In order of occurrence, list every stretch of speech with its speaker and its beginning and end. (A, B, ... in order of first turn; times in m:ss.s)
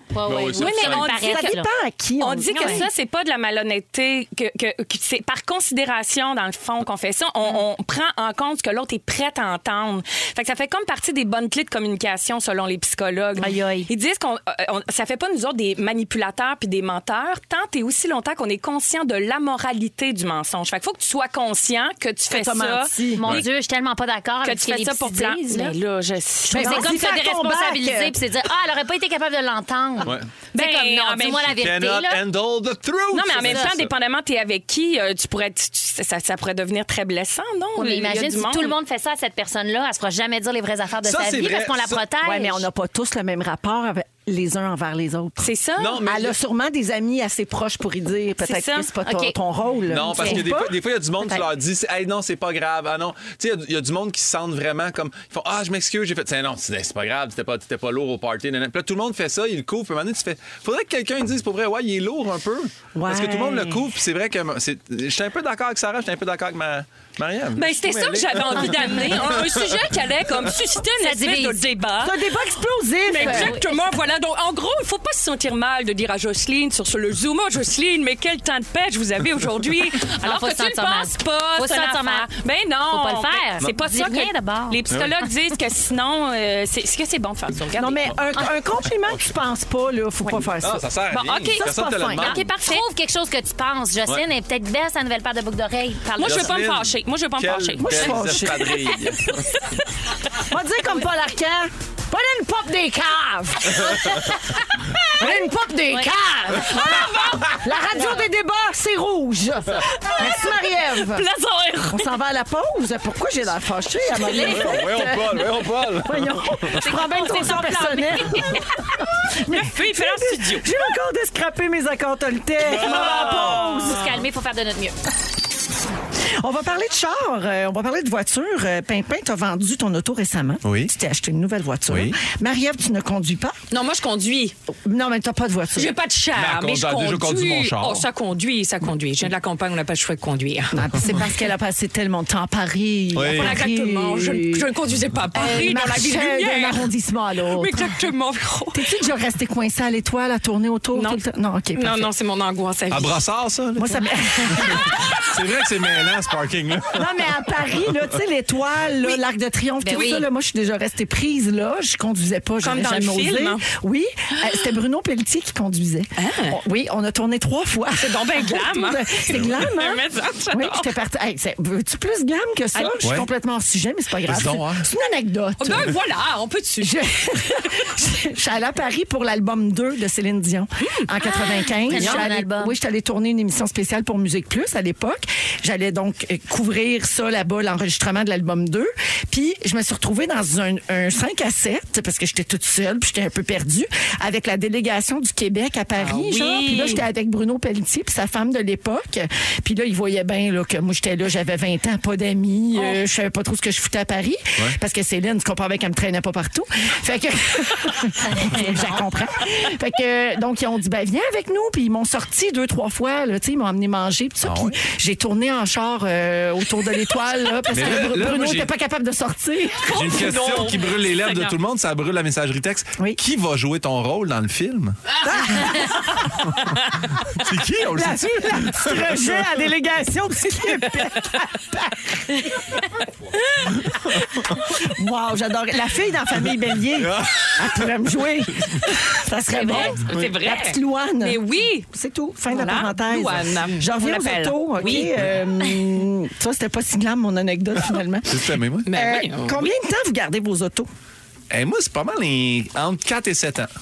0:00.1-0:01.7 A
0:00.3-0:01.1 B
0:00.5-0:01.6 C
0:01.2-0:02.9 D
0:02.2-0:23.4 C
0:02.5-0:02.8 A
0:13.4-0:13.9 A
0:22.3-0:23.3 D
0:23.2-0:25.8 A
0:24.4-0:27.0 C
0:26.5-0:28.2 D
0:26.5-0:32.2 A
0:30.0-0:30.3 B
0:30.5-0:31.5 C
0:31.5-0:33.9 B
0:33.1-0:38.8 C
0:33.4-0:33.7 A
0:37.8-0:42.7 A
0:41.0-0:42.0 B
0:42.2-0:50.8 D
0:45.4-0:46.1 C
0:45.8-0:46.4 B
0:48.4-0:48.9 C
0:49.0-0:49.4 A
0:49.9-1:10.5 B
0:50.1-0:50.4 A
1:03.0-1:03.9 D
1:07.6-1:12.2 C
1:11.0-1:11.6 A
1:12.0-1:13.6 D
1:13.1-1:28.1 C
1:13.2-1:13.7 A
1:20.2-1:22.3 A
1:22.9-1:24.8 A
1:27.8-1:30.9 D
1:30.6-1:32.5 B
1:31.1-1:32.8 C
1:31.5-1:32.4 D
1:32.2-1:36.6 A
1:36.2-1:38.7 C
1:36.2-1:39.5 B
1:37.8-1:38.9 D
1:40.4-1:44.4 D
1:45.1-1:51.3 D
1:45.9-1:46.1 A
1:46.6-1:47.6 C
1:50.0-1:50.4 C
1:50.9-1:52.1 C
1:51.8-1:58.6 D
1:54.2-1:54.9 A
1:54.4-1:56.8 B
1:56.8-1:58.9 A
1:59.2-2:04.2 D
1:59.4-2:00.7 C
2:02.7-2:03.6 B
2:02.8-2:05.0 A
2:02.8-2:04.0 C
2:06.4-2:13.6 D
2:10.6-2:10.9 B
2:11.9-2:12.2 B
2:13.7-2:14.6 C
2:14.8-2:15.9 D
2:15.8-2:20.9 C
2:16.4-2:18.1 B
2:20.7-2:24.7 D
2:23.1-2:23.6 B
2:23.3-2:26.9 C
2:25.3-2:27.9 D
2:27.5-2:28.9 C
2:28.7-2:32.1 D
2:30.9-2:31.2 C
2:31.8-2:33.2 C
2:32.9-2:37.4 B
2:33.8-2:34.9 D
2:36.9-2:56.0 D
2:39.8-2:40.3 A
2:42.6-2:43.6 C
2:46.2-2:46.6 C
2:48.0-2:51.0 C
2:52.8-2:53.0 C
2:54.2-2:54.9 B
2:55.6-2:57.9 C
2:56.8-3:40.0 D
3:01.4-3:02.8 A
3:01.9-3:02.3 C
3:16.0-3:17.0 C
3:28.3-3:28.8 A
3:34.4-3:34.8 B
3:37.7-3:38.7 B
3:39.8-3:41.6 C
3:39.9-3:45.0 B
3:45.2-3:46.3 D
3:46.4-3:49.5 B
3:47.9-3:52.8 D
3:53.7-3:54.8 B
3:54.6-4:10.9 D
3:56.4-3:58.0 B
3:58.6-3:59.0 B
3:59.5-3:59.9 A
3:59.6-4:01.9 C
4:02.5-4:05.2 C
4:05.0-4:05.3 B
4:08.3-4:08.9 B
4:08.9-4:09.7 C
4:11.5-4:13.7 B